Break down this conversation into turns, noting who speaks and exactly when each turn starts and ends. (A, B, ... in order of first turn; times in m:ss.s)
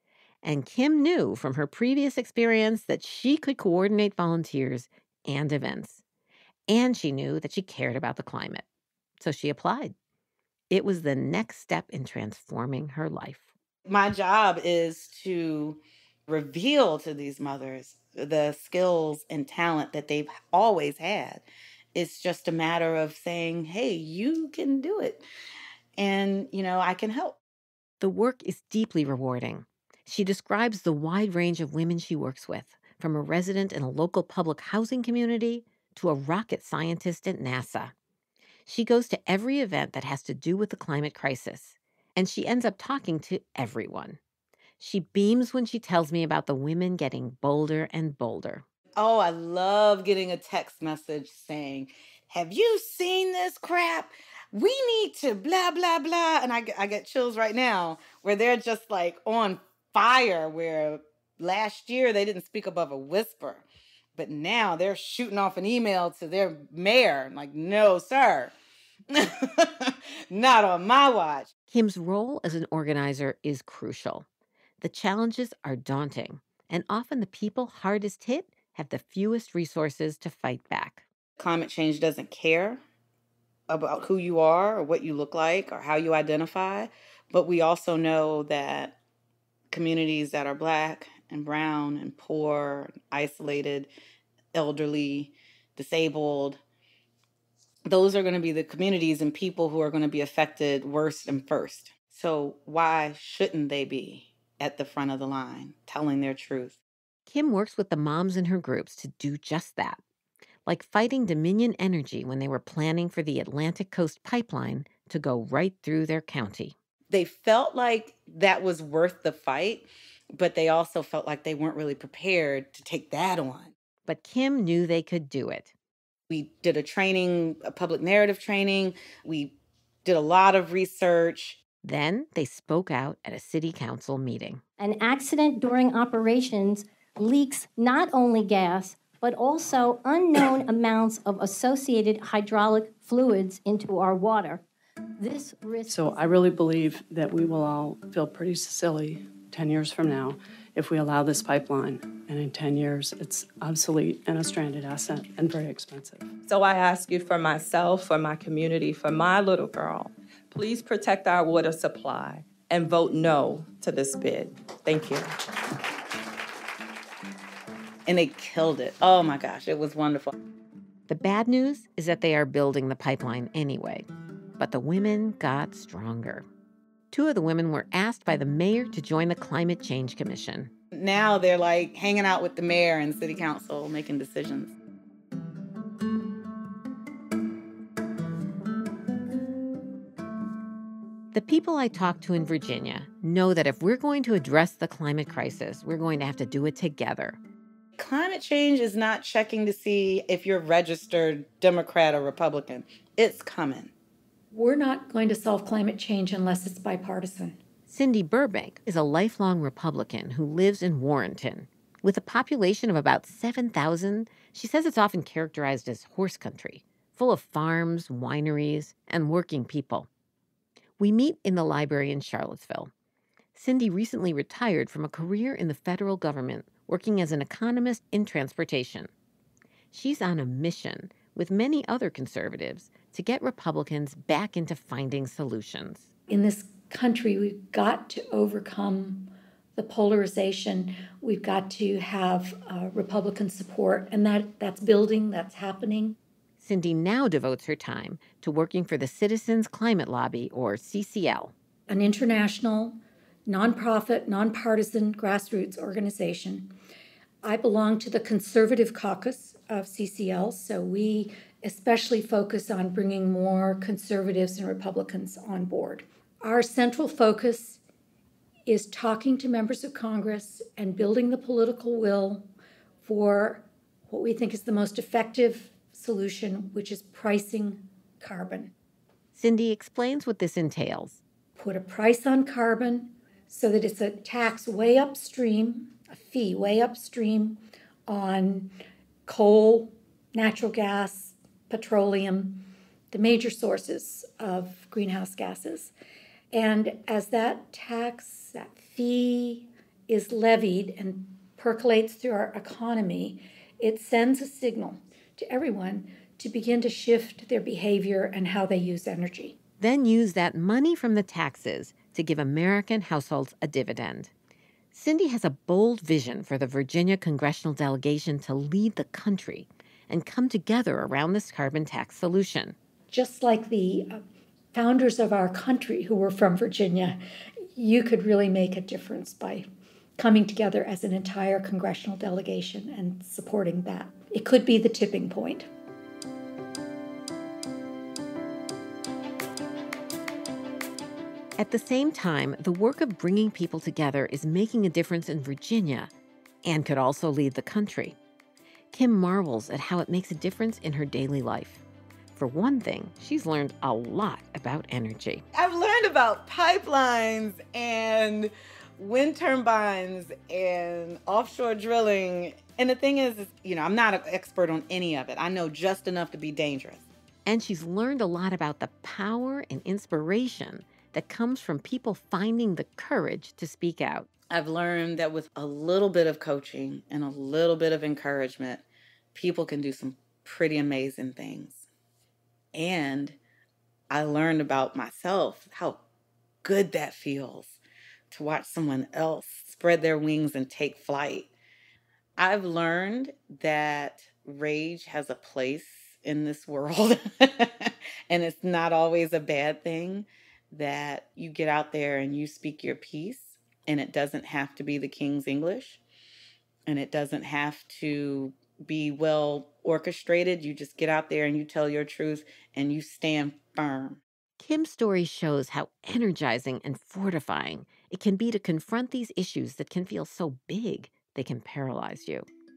0:00.4-0:06.0 A
0:06.7-0:08.6 A
0:09.2-0:09.9 A
0:10.7-0:13.5 A
0:13.9-0:21.4 B
0:22.0-0:25.2 B
0:26.0-0:27.4 B
0:28.0-0:37.9 A
0:38.7-0:44.2 A
0:44.8-0:48.6 A
0:49.0-1:08.5 B
1:09.1-1:11.5 B
1:11.7-1:14.3 A
1:14.8-1:21.0 A
1:21.4-1:22.8 B
1:23.7-1:29.0 B
1:29.7-1:33.9 B
1:34.5-1:36.6 B
1:37.9-1:46.8 B
1:47.3-1:50.0 A
1:50.7-1:56.8 A
1:57.1-2:03.7 B
2:04.1-2:05.7 A
2:06.3-2:11.6 B
2:11.8-2:14.6 A
2:14.8-2:24.6 C
2:25.2-2:26.3 C
2:25.9-2:36.4 D
2:36.4-2:45.3 E
2:48.1-2:50.3 B
2:51.1-2:54.1 A
2:54.6-2:56.5 A
2:57.1-3:00.7 A
3:00.9-3:04.7 B
3:11.3-3:17.4 A
3:18.0-3:23.9 B
3:24.5-3:27.6 F
3:27.9-3:40.1 A
3:41.0-3:42.9 A
3:43.6-3:49.1 A
3:49.9-3:56.1 A
3:56.3-4:06.2 F
4:06.6-4:11.5 A
4:11.9-4:16.7 F
4:17.4-4:27.8 F
4:28.7-4:32.5 F
4:33.0-4:38.7 F
4:39.4-4:41.2 A
4:41.6-4:48.7 F
4:49.3-4:55.9 F
4:56.5-5:09.6 F
5:09.8-5:14.3 A
5:14.9-5:22.8 A
5:23.1-5:24.2 F
5:24.7-5:27.2 F
5:27.8-5:29.7 F
5:30.2-5:35.7 F
5:41.6-5:46.1 A
5:46.6-5:48.2 A
5:48.9-5:51.8 A
5:52.4-5:55.4 A
5:55.6-6:07.0 B
6:07.5-6:14.3 A
6:14.5-6:21.9 B
6:22.7-6:23.4 B
6:24.1-6:26.0 B
6:26.6-6:27.8 B
6:28.3-6:31.5 B
6:32.4-6:46.0 B
6:46.9-6:54.2 B
6:54.6-7:02.5 A